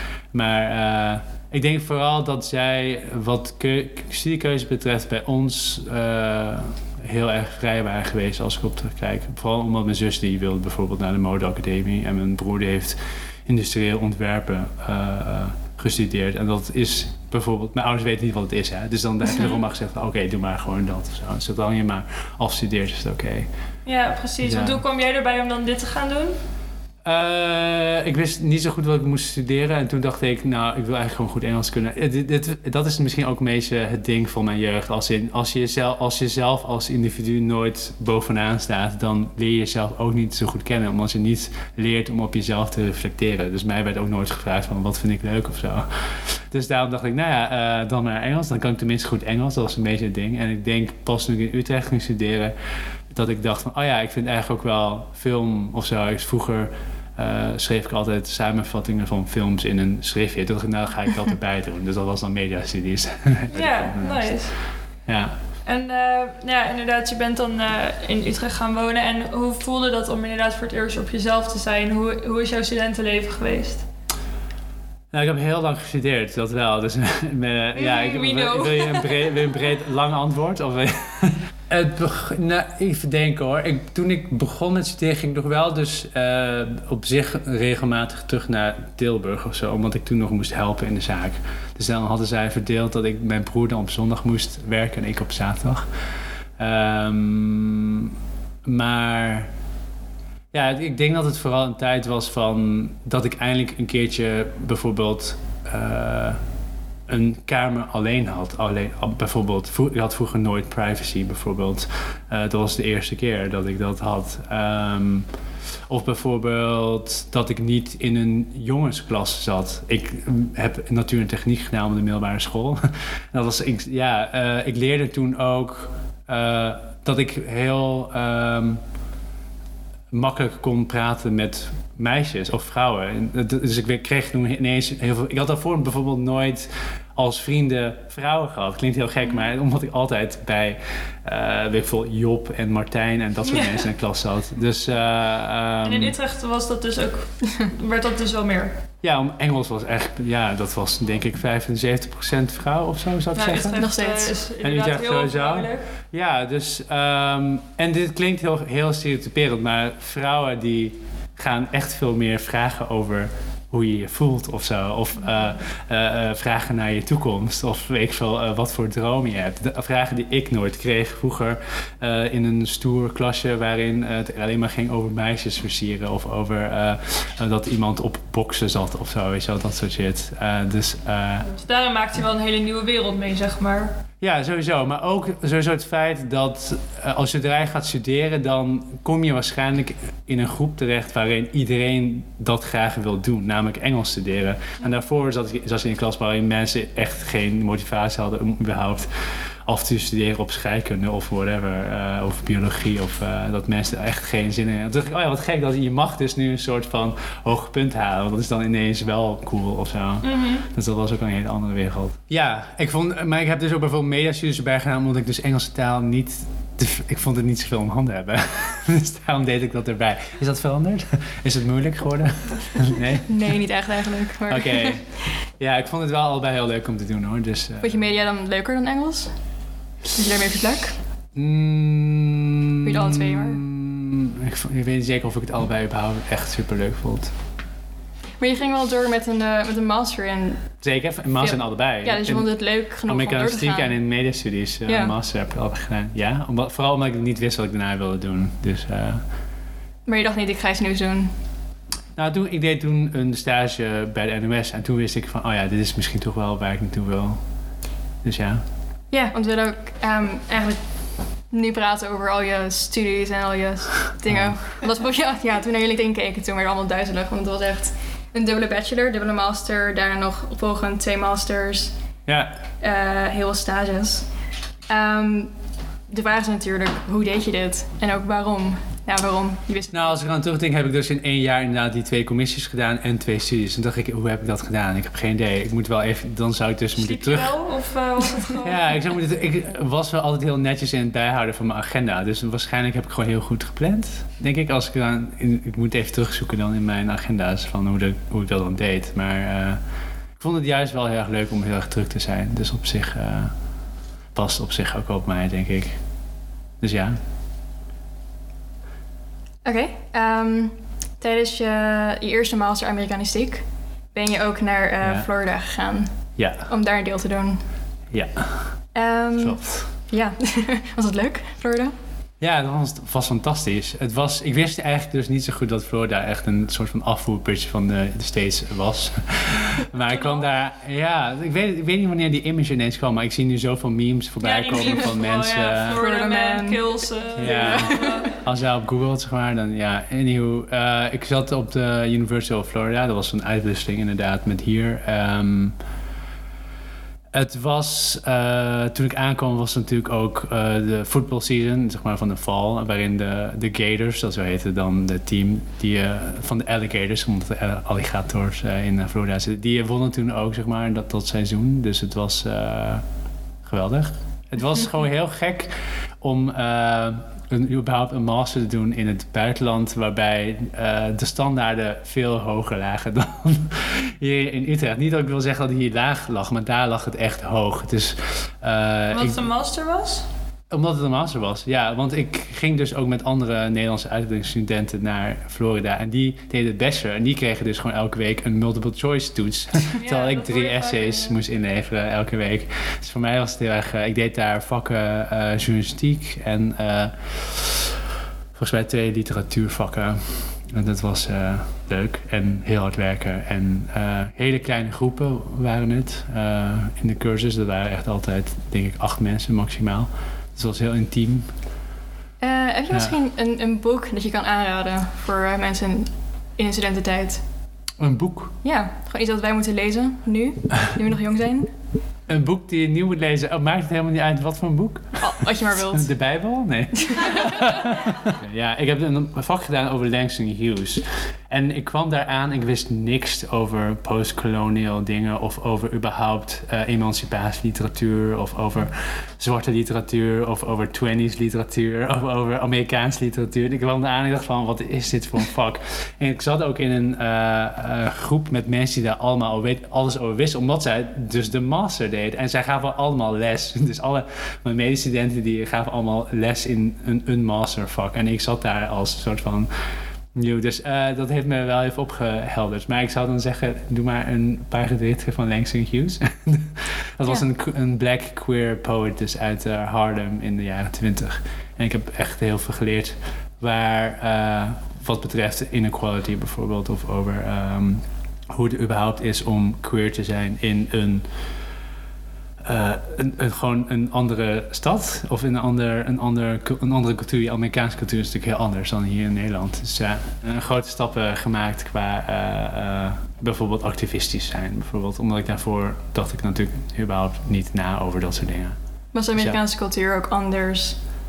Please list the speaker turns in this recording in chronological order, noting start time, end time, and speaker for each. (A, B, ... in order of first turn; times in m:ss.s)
0:00.3-0:23.5 A
0:23.8-0:26.4 B
0:24.4-0:24.8 A
0:27.0-0:52.5 A
0:53.1-1:04.4 A
1:03.5-1:04.6 B
1:05.1-1:05.4 A
1:05.6-1:13.9 B
1:15.1-1:35.9 A
1:17.8-1:19.4 B
1:36.6-1:38.1 A
1:38.6-1:39.5 A
1:40.5-1:46.4 A
1:47.1-1:55.3 A
1:55.9-2:08.8 A
2:10.1-2:26.2 A
2:23.5-2:23.9 B
2:25.8-2:28.8 B
2:29.0-2:33.9 A
2:33.4-2:35.8 B
2:33.5-2:34.3 C
2:34.6-3:01.5 A
3:01.6-3:04.0 B
3:04.2-3:43.3 A
3:30.2-3:30.7 B
3:43.3-3:45.2 C
3:44.5-3:48.0 A
3:47.8-3:49.4 C
3:50.1-3:51.0 C
3:51.4-3:57.3 A
3:52.8-3:53.6 C
3:58.4-4:00.8 C
4:00.8-4:09.2 A
4:01.4-4:04.0 C
4:04.9-4:05.1 C
4:10.1-4:11.3 C
4:12.2-4:17.4 A
4:18.2-4:18.6 A
4:19.1-4:32.0 C
4:24.3-4:24.6 A
4:32.3-4:32.5 A
4:32.8-4:34.3 C
4:34.9-4:35.5 C
4:36.1-4:40.2 C
4:39.9-4:47.6 A
4:47.0-4:49.0 B
4:48.6-4:59.8 A
5:00.4-5:03.5 A
5:04.3-5:06.0 A
5:06.8-5:07.2 A
5:09.6-5:17.6 C
5:15.0-5:15.3 A
5:16.4-5:16.7 A
5:18.1-5:18.8 A
5:18.9-5:22.0 C
5:19.4-5:19.9 A
5:22.4-5:36.0 A
5:30.0-5:30.5 B
5:34.4-5:38.4 B
5:35.9-5:38.3 C
5:37.4-5:45.8 A
5:47.3-6:03.0 A
6:03.6-6:19.4 A
6:19.1-6:20.3 B
6:20.7-6:38.0 A
6:29.9-6:31.4 B
6:38.6-6:51.5 A
6:52.4-6:57.4 C
6:58.0-6:58.5 A
6:58.6-7:01.7 C
7:02.3-7:39.7 A
7:05.2-7:06.1 C
7:40.3-8:01.3 A
8:02.6-8:18.8 A
8:19.1-8:21.0 C